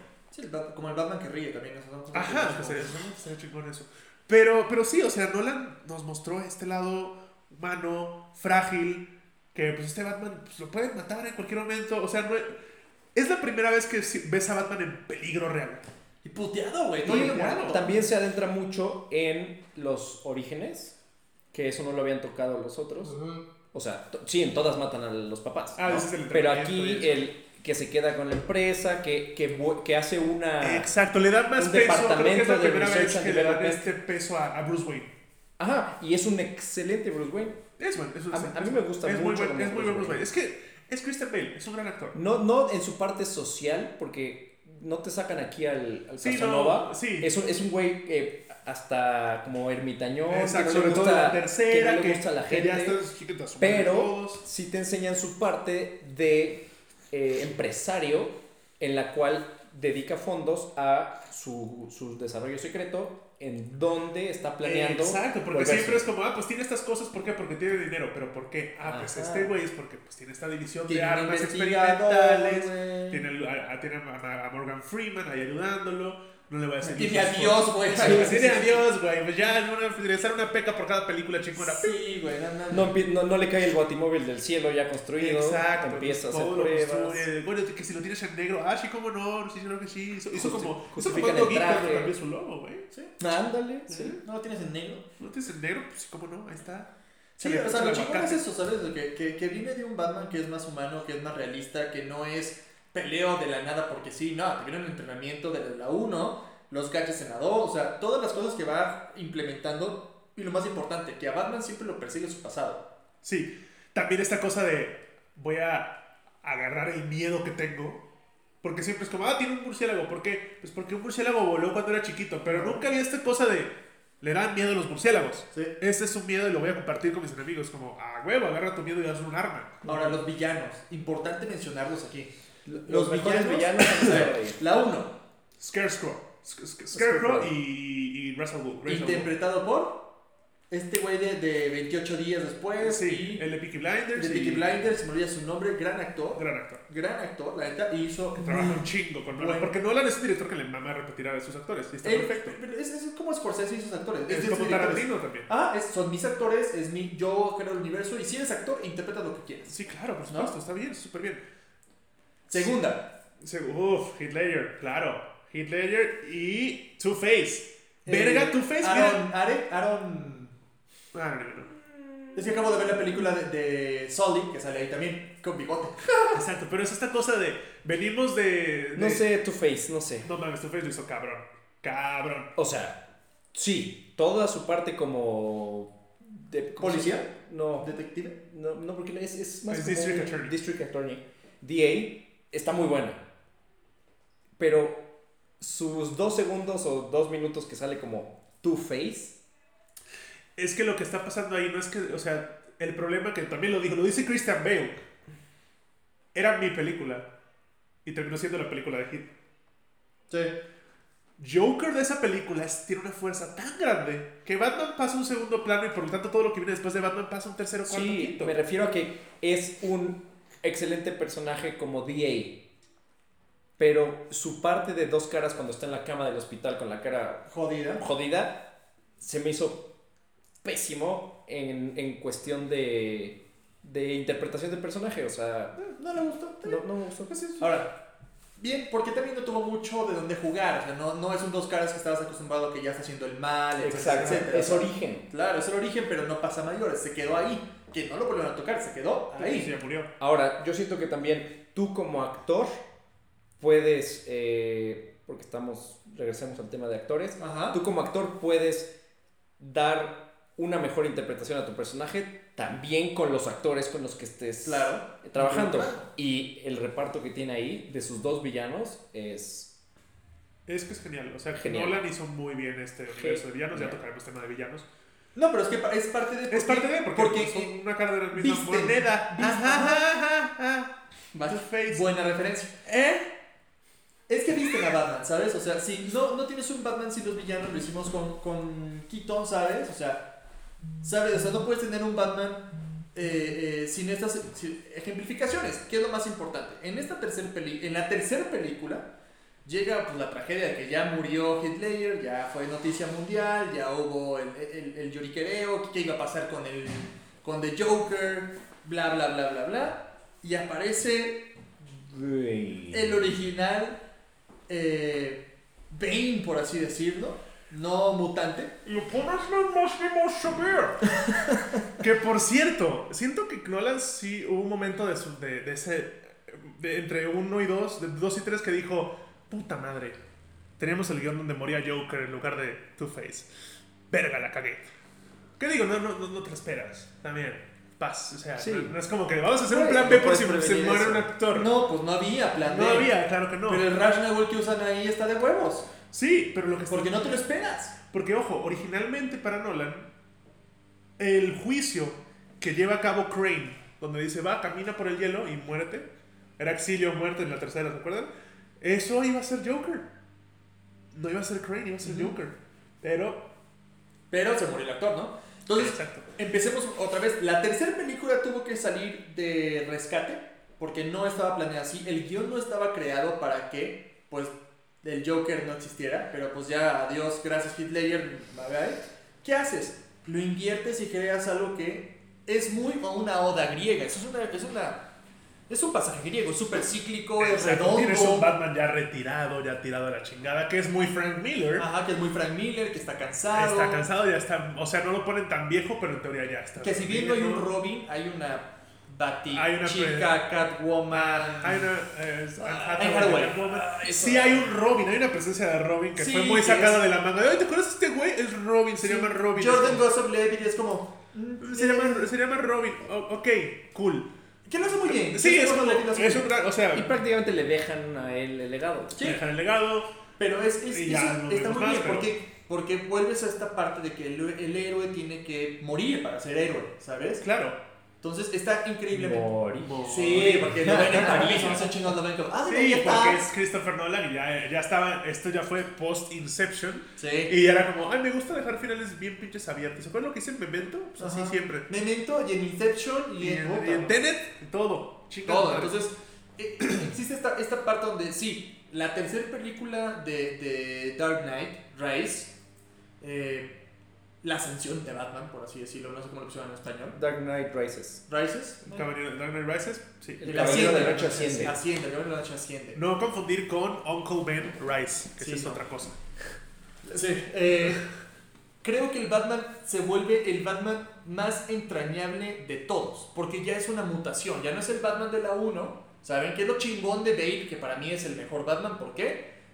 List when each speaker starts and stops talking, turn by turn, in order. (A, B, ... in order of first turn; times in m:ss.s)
0:00.3-0:02.9 A
0:02.1-0:12.5 B
0:13.1-0:15.8 B
0:16.2-0:17.9 A
0:17.0-0:17.8 B
0:17.0-0:21.0 C
0:21.5-0:23.2 C
0:23.7-0:30.9 C
0:25.8-0:27.2 B
0:30.6-0:35.1 B
0:31.6-0:33.9 C
0:35.6-0:37.6 C
0:37.8-0:42.2 B
0:38.3-0:40.2 C
0:42.1-0:53.0 C
0:46.2-0:47.3 B
0:50.3-0:54.4 B
0:53.6-1:06.1 C
1:04.6-1:22.0 B
1:08.8-1:09.5 C
1:10.9-1:13.2 A
1:16.9-1:18.8 A
1:17.9-1:18.5 C
1:21.6-1:22.9 A
1:22.7-1:27.3 C
1:25.2-1:32.9 B
1:30.3-1:32.1 C
1:32.9-1:33.2 A
1:33.2-1:34.2 C
1:33.9-1:34.2 B
1:34.1-1:35.0 A
1:35.2-1:38.4 B
1:37.4-1:52.8 A
1:53.2-1:58.0 B
1:58.6-2:09.9 B
2:02.4-2:02.8 A
2:09.8-2:12.3 A
2:12.6-2:14.6 C
2:12.8-2:15.2 A
2:15.6-2:19.3 B
2:16.9-2:17.5 C
2:18.8-2:20.0 A
2:20.7-2:23.4 A
2:22.8-2:24.7 B
2:24.1-2:29.7 A
2:26.3-2:26.8 B
2:28.4-2:32.6 B
2:32.0-2:39.7 A
2:34.3-2:35.5 B
2:39.7-2:41.4 B
2:40.3-2:40.5 A
2:42.5-2:43.1 A
2:43.4-2:49.2 B
2:48.0-2:50.5 A
2:51.1-2:51.7 B
2:52.3-2:56.4 A
2:56.3-2:59.2 B
2:58.9-3:00.3 C
3:00.2-3:02.5 B
3:02.6-3:03.0 C
3:03.5-3:13.2 C
3:06.8-3:08.4 A
3:09.7-3:10.5 B
3:14.6-3:15.0 C
3:15.6-3:19.4 C
3:20.6-3:25.0 B
3:26.3-3:27.2 B
3:28.0-3:29.3 B
3:30.3-3:30.5 A
3:31.4-3:38.5 B
3:37.8-3:42.6 C
3:43.8-3:47.4 C
3:47.5-3:48.0 A
3:48.0-3:48.6 C
3:49.2-3:49.8 C
3:50.6-3:55.8 C
3:55.8-3:56.8 A
3:56.6-3:57.7 C
3:57.6-3:57.9 A
3:58.6-4:09.7 A
4:03.8-4:05.3 C
4:03.9-4:04.5 B
4:09.4-4:10.1 B
4:10.2-4:12.8 C
4:13.6-4:18.9 C
4:17.4-4:17.8 A
4:19.6-4:29.7 C
4:24.6-4:26.1 A
4:30.7-4:34.9 B
4:31.6-4:32.0 C
4:33.1-4:34.0 C
4:35.3-4:37.8 A
4:36.5-4:40.9 B
4:38.3-4:40.0 A
4:41.3-4:42.8 A
4:41.4-4:42.0 B
4:42.8-4:43.3 B
4:44.3-4:50.2 A
4:51.0-4:59.1 A
4:59.6-5:11.4 A
5:11.8-5:13.3 C
5:12.9-5:14.0 A
5:14.7-5:18.8 A
5:21.3-5:21.6 C
5:22.0-5:30.2 B
5:30.8-5:33.5 B
5:34.1-5:34.8 B
5:35.6-5:41.7 B
5:38.6-5:38.9 C
5:39.7-5:43.1 A
5:42.6-5:43.9 B
5:43.6-5:45.9 A
5:46.1-5:47.4 B
5:46.9-5:47.9 A
5:48.1-5:50.1 B
5:51.2-5:56.1 B
5:56.6-5:58.3 B
5:58.8-6:00.1 B
6:01.1-6:03.4 B
6:02.0-6:02.3 A
6:04.3-6:25.0 A
6:05.7-6:06.3 B
6:25.7-6:28.5 A
6:27.4-6:31.9 B
6:31.8-6:34.0 A
6:33.5-6:37.7 B
6:36.8-6:41.9 A
6:39.5-6:40.3 B
6:41.1-6:50.0 B
6:42.6-6:44.7 A
6:46.2-6:47.0 A
6:49.0-6:52.3 A
6:51.6-6:54.3 B
6:54.6-6:56.5 A
6:55.0-6:57.1 B
6:56.9-6:59.2 C
6:59.2-6:59.4 A
6:59.2-7:00.1 B
7:00.4-7:07.4 A
7:00.9-7:02.3 B
7:07.4-7:07.8 B
7:08.2-7:13.4 A
7:09.1-7:10.0 C
7:09.8-7:11.9 B
7:10.9-7:11.7 C
7:12.6-7:21.9 B
7:17.2-7:17.5 A
7:21.2-7:24.2 A
7:23.4-7:25.9 B
7:25.5-7:32.5 A
7:33.2-7:33.7 A
7:34.4-7:37.2 A
7:37.1-7:38.2 C
7:38.3-7:39.0 A
7:38.9-7:41.7 B
7:40.4-7:41.8 C
7:40.4-7:43.0 A
7:42.9-7:46.2 B
7:45.4-7:45.8 A
7:47.1-7:48.1 A
7:48.8-7:59.4 A